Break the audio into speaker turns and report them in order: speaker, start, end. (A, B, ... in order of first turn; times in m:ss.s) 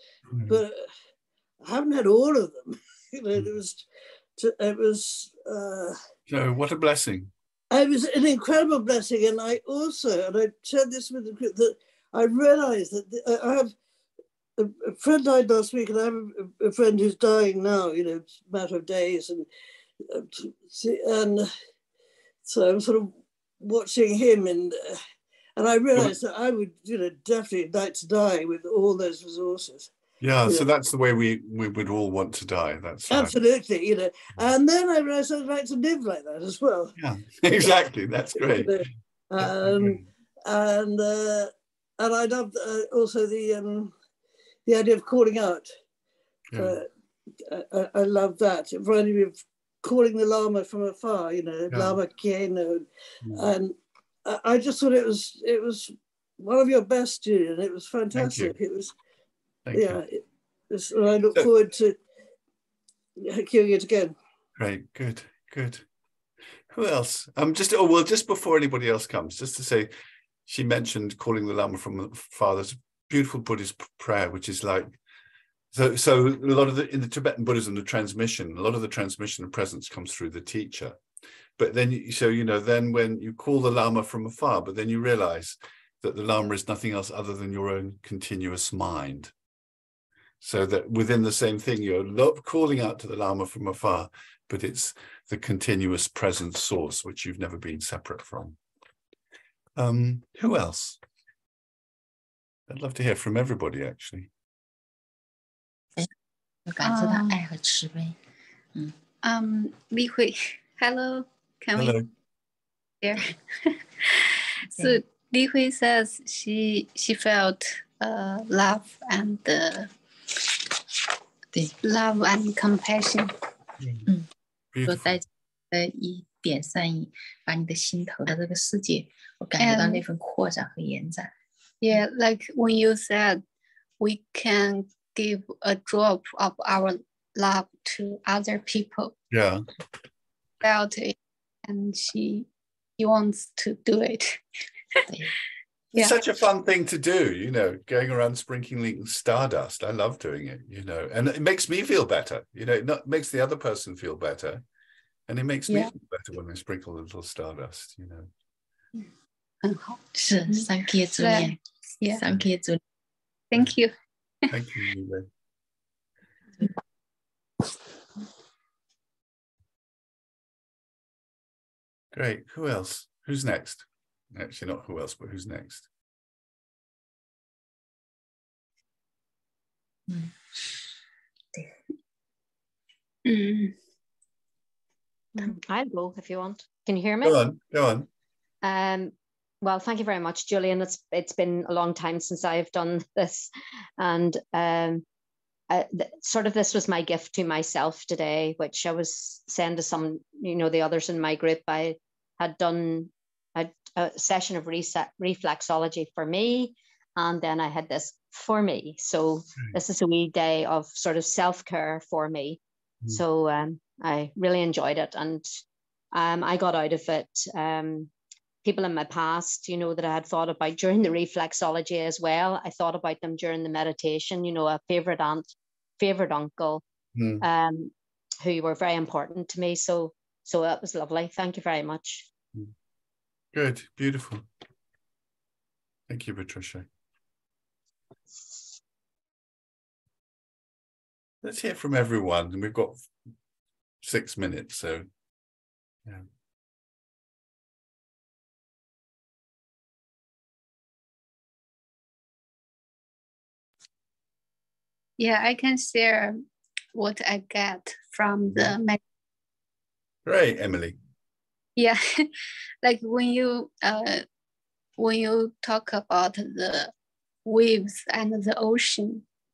0:00.3-0:00.6 A
0:00.5-0:00.8 B
0:01.6-0:03.8 B
0:04.4-0:06.0 B
0:06.3-0:07.3 A
0:07.7-0:13.7 B
0:14.6-0:19.5 B
0:20.1-0:21.5 B
0:22.4-0:25.0 B
0:25.6-0:29.9 B
0:30.2-0:33.4 A
0:33.1-0:37.0 B
0:37.0-0:38.7 A
0:38.5-0:43.9 B
0:39.4-0:40.0 A
0:44.6-0:45.7 B
0:46.5-0:46.8 A
0:46.6-0:46.8 B
0:47.5-0:58.9 B
0:51.7-0:52.0 A
0:58.1-0:58.5 A
0:59.6-1:00.0 A
0:59.7-1:02.0 B
1:03.2-1:04.2 B
1:04.6-1:05.8 A
1:06.7-1:09.9 A
1:10.4-1:15.0 A
1:15.7-1:21.0 A
1:21.6-1:29.3 A
1:30.4-1:38.6 A
1:39.8-1:41.0 A
1:42.7-1:44.3 A
1:46.7-1:48.2 C
1:46.8-1:47.4 D
1:49.2-1:52.0 D
1:51.7-1:52.1 A
1:53.0-1:59.9 D
1:54.7-1:55.0 C
2:01.8-2:03.3 D
2:03.8-2:04.1 A
2:04.7-2:05.2 A
2:04.8-2:11.3 C
2:09.6-2:10.0 D
2:11.8-2:13.4 D
2:14.0-2:19.2 D
2:19.3-2:19.6 A
2:20.6-2:22.5 D
2:23.0-2:24.4 D
2:25.1-2:25.3 C
2:25.9-2:34.6 A
2:35.3-2:38.3 A
2:39.6-2:42.2 D
2:40.2-2:42.8 C
2:43.5-2:43.9 D
2:44.5-2:45.3 A
2:52.1-2:55.9 A
3:03.2-3:03.7 D
3:05.4-3:07.4 E
3:07.2-3:08.1 A
3:08.6-3:15.0 E
3:15.7-3:35.6 E
3:36.1-3:38.1 E
3:38.6-3:45.5 E
3:46.0-3:46.8 E
3:47.1-3:47.4 A
3:47.4-3:52.2 E
3:53.5-3:54.4 A
3:56.1-3:56.9 A
4:01.4-4:03.1 A
4:04.0-4:05.0 A
4:15.2-4:16.4 D
4:16.9-4:19.0 D
4:20.2-4:21.0 A
4:21.8-4:22.3 D
4:22.8-4:24.2 D
4:25.0-4:26.9 D
4:27.4-4:29.2 D